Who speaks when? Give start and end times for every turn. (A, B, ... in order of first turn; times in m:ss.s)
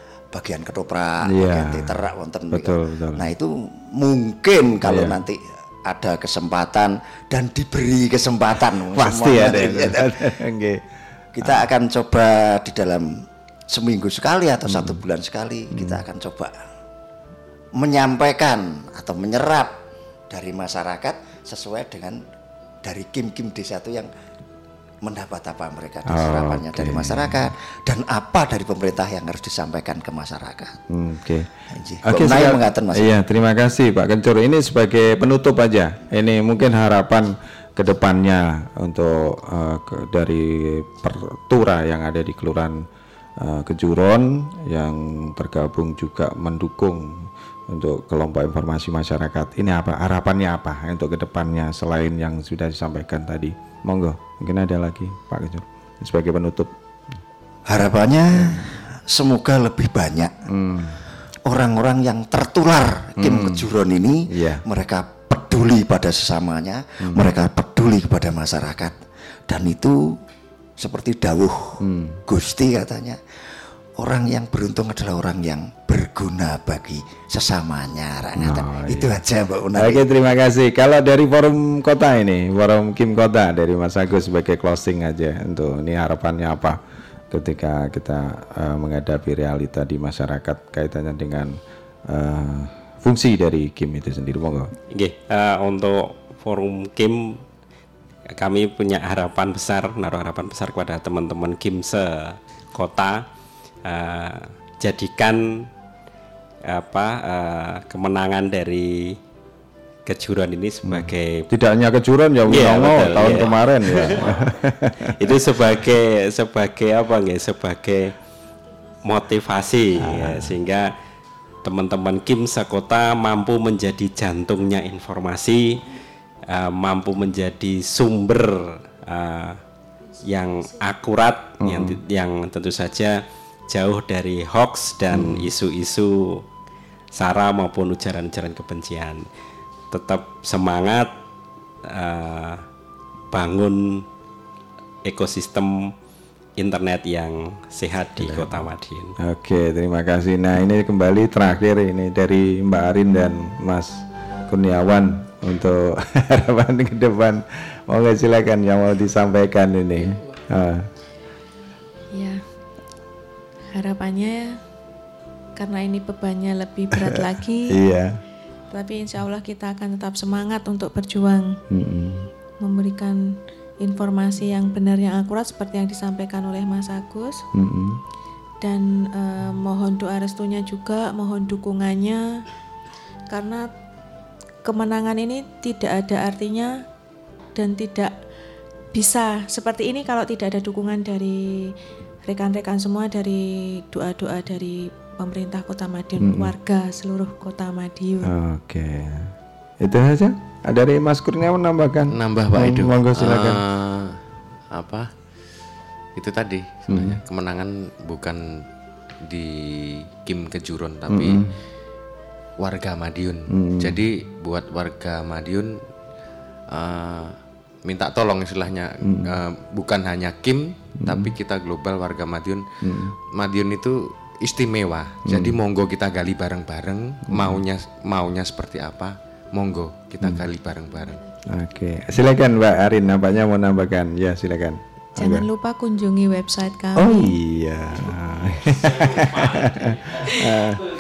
0:00.3-0:10.1 A
0:01.3-0:03.3 B
0:04.8-0:05.2 B
0:08.9-0:10.8 B
0:11.4-0:13.1 A
0:11.4-0:11.7 B
0:13.7-0:16.5 A
0:14.7-0:15.0 B
0:15.7-0:16.0 B
0:17.8-0:19.8 A
0:20.3-0:22.2 A
0:22.8-0:24.1 A
0:25.0-0:30.8 A
0:26.1-0:27.5 B
0:30.9-0:31.5 B
0:31.7-0:33.1 A
0:32.0-0:42.8 B
0:43.4-0:56.7 B
0:57.7-1:00.3 A
0:58.3-0:58.7 B
1:00.5-1:01.0 B
1:01.5-1:10.2 A
1:03.2-1:03.7 B
1:04.3-1:04.6 B
1:07.0-1:07.4 B
1:10.8-1:13.2 A
1:11.8-1:12.2 B
1:14.0-1:20.0 A
1:18.4-1:19.2 B
1:19.8-1:26.8 B
1:27.3-1:31.6 B
1:32.1-1:34.7 B
1:34.9-1:37.4 C
1:38.4-1:43.2 C
1:43.8-1:45.7 C
1:46.7-1:49.2 C
1:50.1-1:51.5 C
1:50.9-1:55.4 B
1:52.5-1:53.5 C
1:55.2-1:58.1 C
1:59.0-2:00.9 C
2:00.0-2:00.6 B
2:01.6-2:05.8 C
2:06.5-2:09.6 C
2:10.3-2:16.4 C
2:11.6-2:12.0 B
2:15.1-2:15.5 B
2:17.2-2:19.2 C
2:19.9-2:21.1 C
2:21.9-2:22.6 C
2:23.3-2:24.0 C
2:25.0-2:25.9 C
2:26.6-2:29.2 C
2:28.2-2:40.9 B
2:42.1-2:42.4 D
2:43.7-2:44.6 D
2:45.6-2:47.8 D
2:47.7-2:48.2 B
2:48.7-2:51.6 D
2:51.7-2:52.3 B
2:52.6-2:57.4 D
2:57.5-2:58.0 B
2:58.6-3:02.4 D
3:03.3-3:03.7 D
3:04.6-3:06.8 D
3:07.6-3:08.1 D
3:08.9-3:11.7 D
3:12.3-3:18.3 D
3:16.2-3:16.5 B
3:18.3-3:23.6 B
3:22.1-3:24.2 E
3:24.7-3:25.1 E
3:26.2-3:28.7 E
3:26.9-3:27.2 B
3:29.2-3:31.5 E
3:31.1-3:31.5 B
3:32.6-3:35.8 E
3:33.5-3:34.0 B
3:36.7-3:37.4 E
3:37.9-3:42.6 E
3:39.0-3:39.3 B
3:41.0-3:41.3 B
3:42.8-3:43.2 B
3:43.3-3:51.2 E
3:45.3-3:45.6 B
3:47.3-3:47.6 B
3:51.5-3:55.5 B
3:55.2-3:57.4 D
3:57.0-4:00.8 B